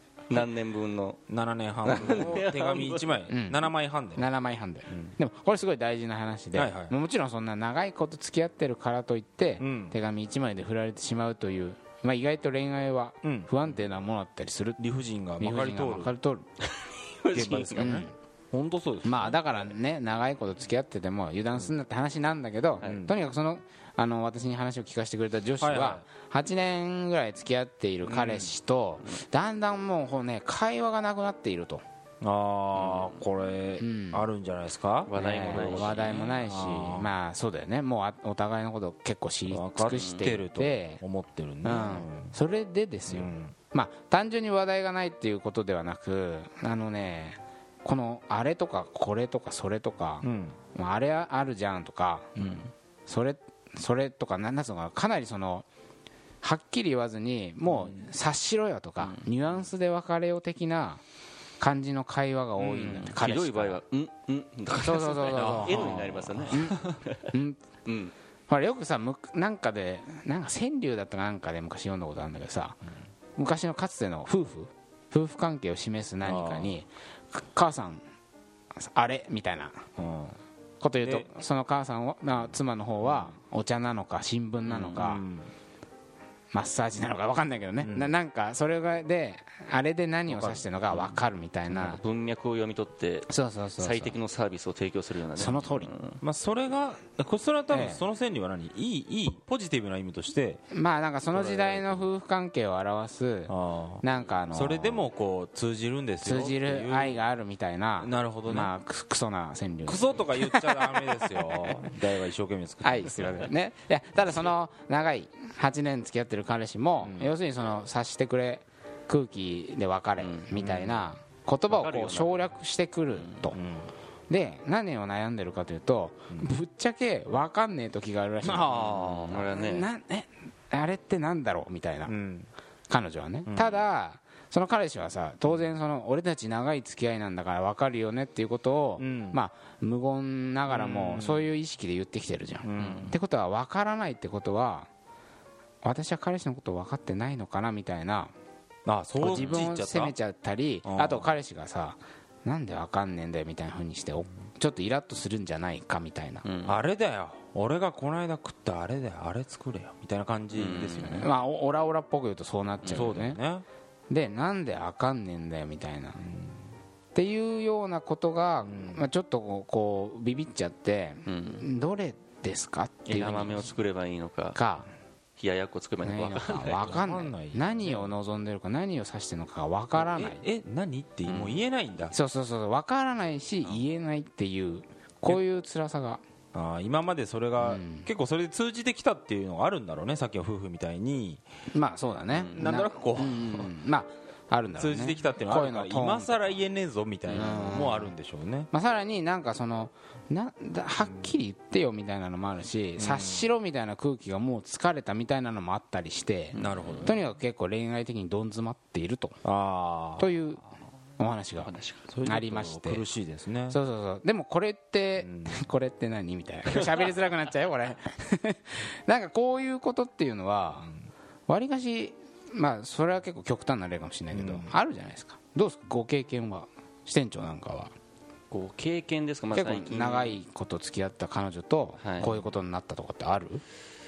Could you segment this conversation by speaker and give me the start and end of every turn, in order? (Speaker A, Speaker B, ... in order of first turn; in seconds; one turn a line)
Speaker A: 0.3-1.2
Speaker B: 1.3-4.3
Speaker A: 1.8-3.1
Speaker C: 3.3-14.8
Speaker B: 6.5-6.9
Speaker B: 9.6-9.9
Speaker B: 13.2-13.5
Speaker B: 14.8-16.1
Speaker C: 15.4-16.5
Speaker A: 16.8-17.9
Speaker B: 17.3-19.7
Speaker C: 17.8-18.1
Speaker C: 19.0-31.8
Speaker B: 22.8-23.1
Speaker B: 25.6-26.0
Speaker B: 28.1-28.5
Speaker B: 32.2-37.1
Speaker A: 32.8-33.2
Speaker C: 33.8-34.2
Speaker A: 35.1-36.4
Speaker C: 35.1-41.0
Speaker B: 39.5-42.3
Speaker A: 39.9-40.3
Speaker C: 41.6-55.6
Speaker B: 43.1-43.5
Speaker B: 50.2-50.6
Speaker B: 52.4-52.6
Speaker C: 56.4-61.0
Speaker C: 61.6-63.8
Speaker A: 62.6-67.3
Speaker B: 62.6-63.0
Speaker C: 64.8-66.8
Speaker B: 65.3-67.0
Speaker C: 67.3-67.6
Speaker A: 67.8-68.1
Speaker C: 68.5-72.8
Speaker C: 73.3-78.0
Speaker B: 76.2-76.7
Speaker C: 78.8-80.0
Speaker B: 80.0-80.4
Speaker C: 80.8-85.2
Speaker B: 84.6-85.5
Speaker C: 86.5-92.0
Speaker B: 87.8-88.1
Speaker B: 90.3-91.2
Speaker A: 91.7-96.2
Speaker C: 93.3-94.2
Speaker C: 95.3-95.9
Speaker B: 96.2-100.6
Speaker C: 97.7-98.0
Speaker C: 100.7-105.1
Speaker B: 101.3-102.1
Speaker B: 103.5-107.2
Speaker C: 106.2-111.9
Speaker B: 108.0-108.7
Speaker B: 109.8-113.5
Speaker C: 112.8-123.6
Speaker B: 117.0-117.3
Speaker A: 120.2-120.5
Speaker B: 120.5-121.2
Speaker A: 121.7-122.4
Speaker B: 123.5-123.9
Speaker C: 124.3-128.8
Speaker B: 128.4-129.5
Speaker A: 128.7-129.9
Speaker C: 129.4-132.1
Speaker B: 132.1-132.5
Speaker C: 132.9-144.9
Speaker B: 133.5-133.8
Speaker B: 139.0-139.4
Speaker B: 140.7-141.5
Speaker B: 142.6-143.2
Speaker A: 142.8-143.1
Speaker C: 145.8-148.3
Speaker B: 148.8-150.1
Speaker C: 149.2-156.4
Speaker B: 150.8-151.3
Speaker A: 156.4-156.8
Speaker B: 156.7-161.3
Speaker A: 160.5-161.3
Speaker C: 161.1-163.4
Speaker B: 162.8-163.6
Speaker C: 164.1-166.2
Speaker B: 166.2-166.6
Speaker C: 167.1-173.7
Speaker B: 168.6-169.0
Speaker A: 171.3-171.7
Speaker A: 173.1-174.6
Speaker C: 174.5-174.9
Speaker A: 175.4-177.0
Speaker C: 176.0-180.4
Speaker B: 176.7-178.1
Speaker B: 179.9-182.1
Speaker A: 181.2-181.6
Speaker C: 182.1-186.2
Speaker B: 186.5-191.4
Speaker C: 187.6-188.1
Speaker C: 191.7-196.5
Speaker B: 192.4-193.7
Speaker B: 194.7-198.7
Speaker C: 197.3-198.1
Speaker C: 198.7-209.4
Speaker B: 203.0-203.5
Speaker A: 206.5-207.1
Speaker B: 206.5-207.2
Speaker B: 209.4-210.3
Speaker C: 210.2-210.6
Speaker C: 211.2-211.7
Speaker A: 211.6-212.1
Speaker B: 212.1-213.8
Speaker C: 212.2-213.0
Speaker C: 213.7-220.9
Speaker B: 215.2-215.6
Speaker C: 221.5-227.9
Speaker B: 224.3-224.7
Speaker A: 228.5-230.4
Speaker C: 229.5-233.6
Speaker A: 232.0-232.4